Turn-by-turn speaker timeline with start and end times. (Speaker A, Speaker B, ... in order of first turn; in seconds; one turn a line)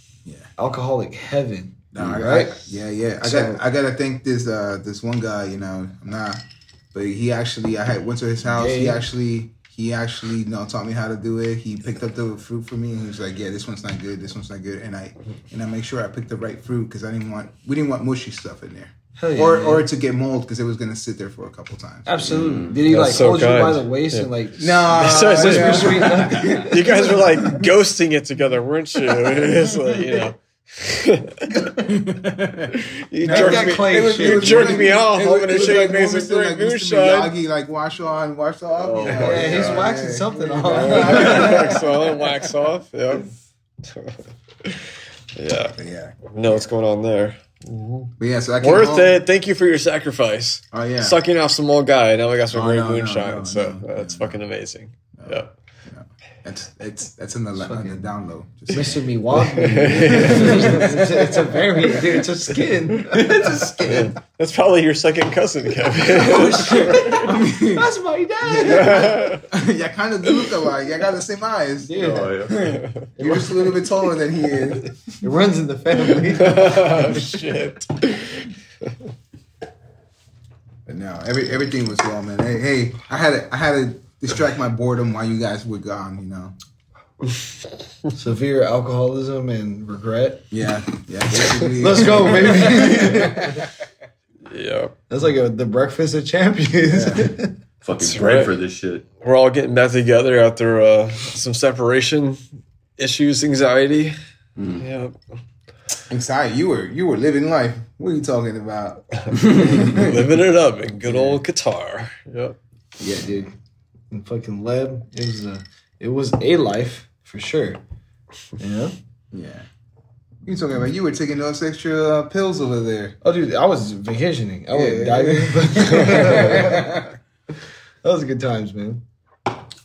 Speaker A: 0.6-3.6
Speaker B: 1.9-22.3
Speaker A: 8.4-9.0
Speaker A: 19.2-19.9
Speaker A: 22.1-26.9
Speaker C: 22.3-22.8
Speaker D: 22.9-24.3
Speaker B: 24.6-27.6
Speaker D: 24.9-31.6
Speaker B: 31.5-42.3
Speaker D: 32.8-37.3
Speaker A: 33.3-35.0
Speaker D: 38.8-39.7
Speaker C: 39.0-39.9
Speaker A: 39.2-41.8
Speaker D: 40.7-43.3
Speaker D: 43.9-55.5
Speaker B: 45.8-46.7
Speaker B: 48.2-49.2
Speaker B: 50.7-51.2
Speaker B: 52.5-54.4
Speaker B: 55.2-59.4
Speaker A: 57.6-58.1
Speaker A: 58.7-63.9
Speaker D: 59.4-60.9
Speaker B: 60.1-61.2
Speaker D: 62.9-67.4
Speaker B: 63.1-64.2
Speaker A: 66.2-69.3
Speaker B: 66.2-67.9
Speaker B: 68.4-75.0
Speaker D: 68.6-69.5
Speaker A: 71.8-72.5
Speaker C: 72.0-72.5
Speaker D: 72.5-73.0
Speaker A: 73.2-73.9
Speaker A: 75.2-77.2
Speaker D: 76.3-78.5
Speaker B: 80.9-86.5
Speaker A: 88.2-90.5
Speaker B: 90.5-93.7
Speaker A: 91.8-93.6
Speaker D: 94.5-95.0
Speaker A: 95.1-97.6
Speaker B: 96.9-97.3
Speaker C: 97.8-99.1
Speaker D: 98.0-98.6
Speaker D: 99.2-102.4
Speaker D: 103.0-104.2
Speaker C: 104.6-104.8
Speaker D: 104.8-105.2
Speaker B: 106.1-110.2
Speaker D: 109.2-112.6
Speaker B: 111.1-111.4
Speaker B: 113.0-113.5
Speaker A: 114.1-117.8
Speaker A: 118.6-118.9
Speaker B: 119.3-119.7
Speaker B: 120.5-123.2
Speaker A: 123.2-126.9
Speaker B: 124.7-127.1
Speaker A: 128.0-129.0